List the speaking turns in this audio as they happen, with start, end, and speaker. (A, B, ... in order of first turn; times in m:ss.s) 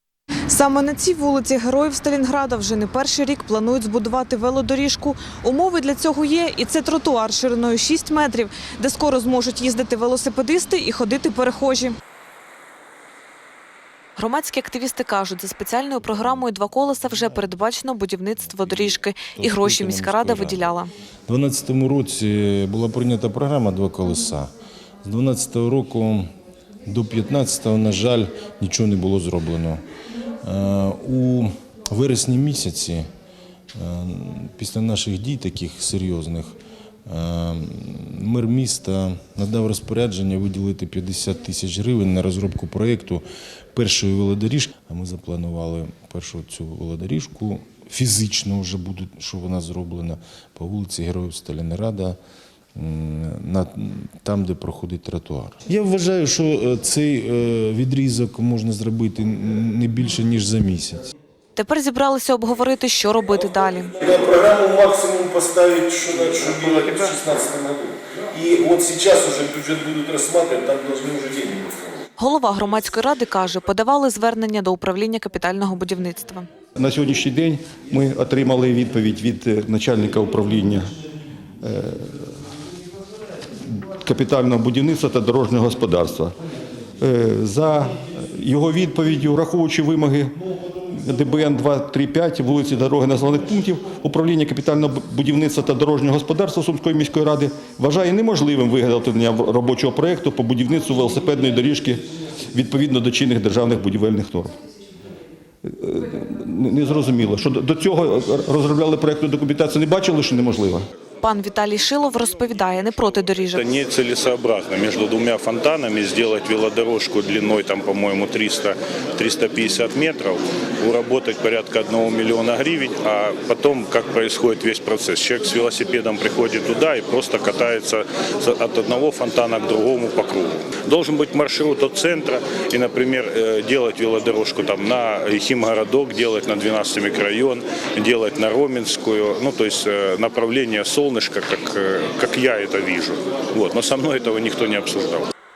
0:00.5-0:12.0 A
0:14.2-0:20.9 A
0:18.5-0:20.7 B
0:21.3-0:24.5 B
0:25.0-0:26.3 B
0:26.9-0:29.8 B
0:30.4-0:33.1 B
0:33.7-0:36.6 B
0:37.1-0:52.2 B
0:52.8-1:01.0 B
1:01.6-1:04.0 A
1:04.0-1:11.8 C
1:04.1-1:06.6 D
1:08.7-1:09.2 D
1:11.0-1:11.7 D
1:12.2-1:16.5 A
1:16.8-1:20.9 D
1:21.6-1:22.3 D
1:23.7-1:26.4 D
1:27.0-1:30.4 D
1:30.9-1:44.6 D
1:45.6-1:50.9 D
1:51.2-1:53.6 A
1:53.6-2:25.3 E